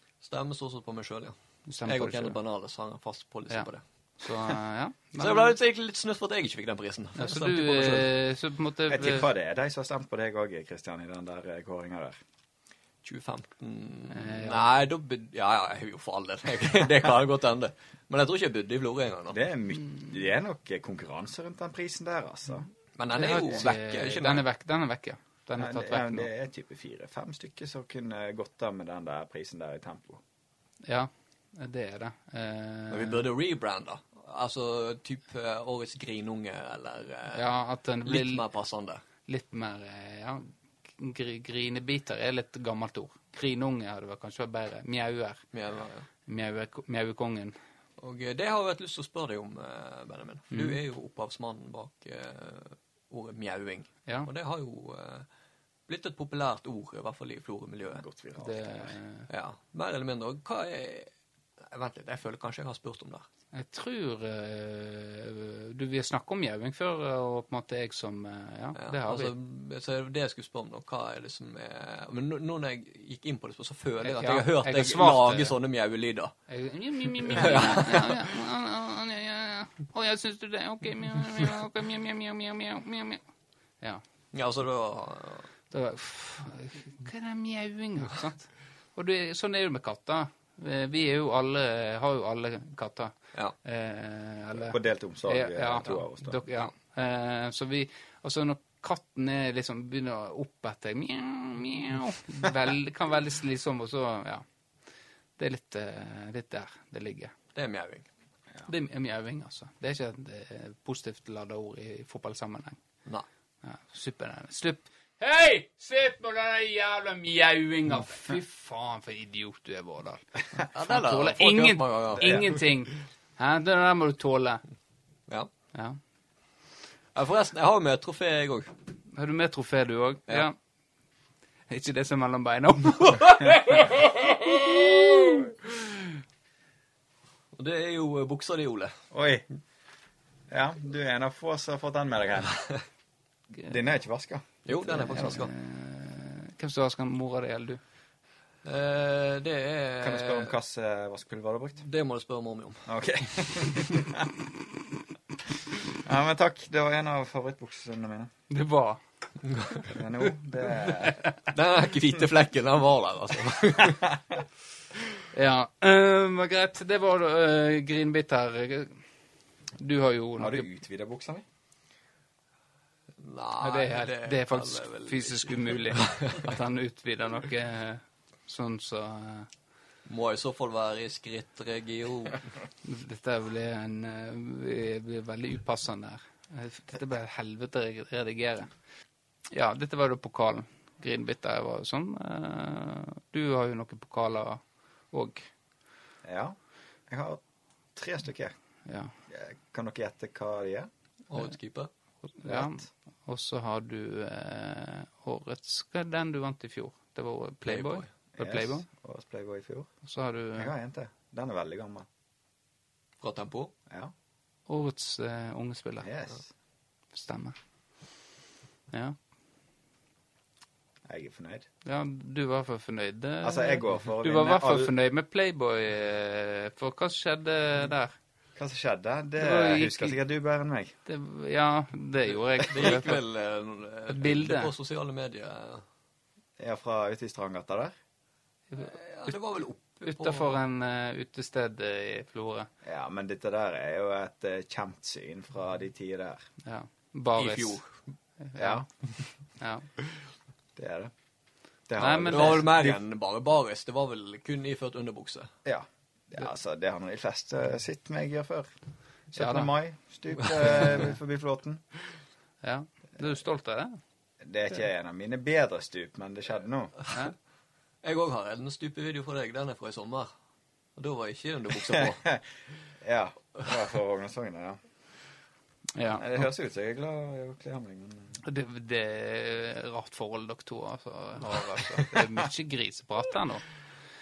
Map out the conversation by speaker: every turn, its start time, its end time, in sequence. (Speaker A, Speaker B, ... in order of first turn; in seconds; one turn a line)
Speaker A: 0.2-3.8
Speaker B: 1.7-2.4
Speaker B: 4.2-5.6
Speaker A: 5.2-8.1
Speaker B: 7.2-9.3
Speaker C: 8.9-12.1
Speaker A: 13.0-19.4
Speaker B: 14.1-14.7
Speaker C: 19.3-22.7
Speaker A: 23.0-24.4
Speaker B: 23.1-26.3
Speaker C: 25.6-30.2
Speaker B: 30.8-33.3
Speaker A: 32.9-37.5
Speaker B: 37.3-38.5
Speaker A: 38.0-39.0
Speaker B: 39.3-45.4
Speaker A: 45.5-46.1
Speaker B: 46.3-47.6
Speaker A: 48.0-55.3
Speaker B: 50.5-50.8
Speaker A: 55.9-58.0
Speaker C: 57.9-58.9
Speaker B: 58.4-59.3
Speaker A: 59.3-61.1
Speaker A: 61.6-63.3
Speaker B: 63.5-69.3
Speaker A: 68.8-76.3
Speaker B: 74.0-75.6
Speaker B: 76.5-83.2
Speaker A: 77.2-78.1
Speaker A: 84.3-85.5
Speaker B: 85.7-104.4
Speaker C: 94.6-96.4
Speaker B: 105.4-107.3
Speaker A: 107.5-108.1
Speaker B: 108.7-112.8
Speaker B: 113.6-124.6
Speaker A: 120.7-122.6
Speaker C: 122.2-122.4
Speaker A: 127.2-128.7
Speaker B: 129.1-130.6
Speaker B: 131.7-134.0
Speaker A: 133.8-134.8
Speaker A: 137.5-138.9
Speaker C: 139.1-139.5
Speaker C: 140.5-142.6
Speaker C: 143.7-144.5
Speaker A: 144.7-145.5
Speaker B: 144.9-147.8
Speaker A: 148.7-150.5
Speaker C: 150.0-151.8
Speaker A: 151.8-152.9
Speaker C: 152.9-154.3
Speaker C: 156.0-158.3
Speaker B: 158.5-159.0
Speaker C: 159.9-161.2
Speaker B: 160.2-161.3
Speaker A: 161.5-164.2
Speaker B: 165.3-169.0
Speaker B: 169.8-170.7
Speaker C: 170.4-171.4
Speaker A: 173.2-176.5
Speaker B: 173.6-179.5
Speaker A: 180.1-182.5
Speaker B: 182.8-188.7
Speaker B: 189.5-195.5
Speaker C: 196.2-196.6
Speaker C: 197.1-197.4
Speaker C: 197.9-198.5
Speaker B: 198.9-199.1
Speaker C: 199.3-200.9
Speaker A: 201.3-201.9
Speaker B: 202.2-208.9
Speaker C: 202.4-202.8
Speaker A: 207.7-208.1
Speaker C: 208.3-209.9
Speaker B: 210.0-210.7
Speaker C: 210.6-212.1
Speaker A: 213.2-213.7
Speaker B: 214.7-216.1
Speaker C: 216.0-216.5
Speaker B: 217.1-217.6
Speaker B: 218.9-219.2
Speaker C: 221.1-221.7
Speaker B: 221.8-228.1
Speaker C: 223.4-224.9
Speaker C: 228.6-230.9
Speaker B: 229.4-230.2
Speaker B: 231.1-233.2
Speaker A: 232.7-235.8
Speaker B: 234.1-234.7
Speaker C: 236.6-237.9
Speaker B: 238.7-239.4
Speaker A: 238.8-240.6
Speaker B: 240.0-242.7
Speaker C: 242.8-246.4
Speaker B: 246.6-247.8
Speaker A: 247.4-247.9
Speaker B: 248.4-248.9
Speaker C: 248.6-248.9
Speaker B: 249.6-249.9
Speaker C: 250.8-251.1
Speaker C: 251.9-253.0
Speaker B: 252.0-252.7
Speaker A: 252.3-255.5
Speaker C: 255.7-258.7
Speaker C: 259.3-261.8
Speaker B: 259.4-259.7
Speaker B: 262.6-264.0
Speaker C: 264.4-266.9
Speaker A: 268.0-270.3
Speaker A: 271.0-272.4
Speaker C: 273.0-274.8
Speaker B: 275.9-276.4
Speaker C: 276.2-278.4
Speaker B: 278.4-283.7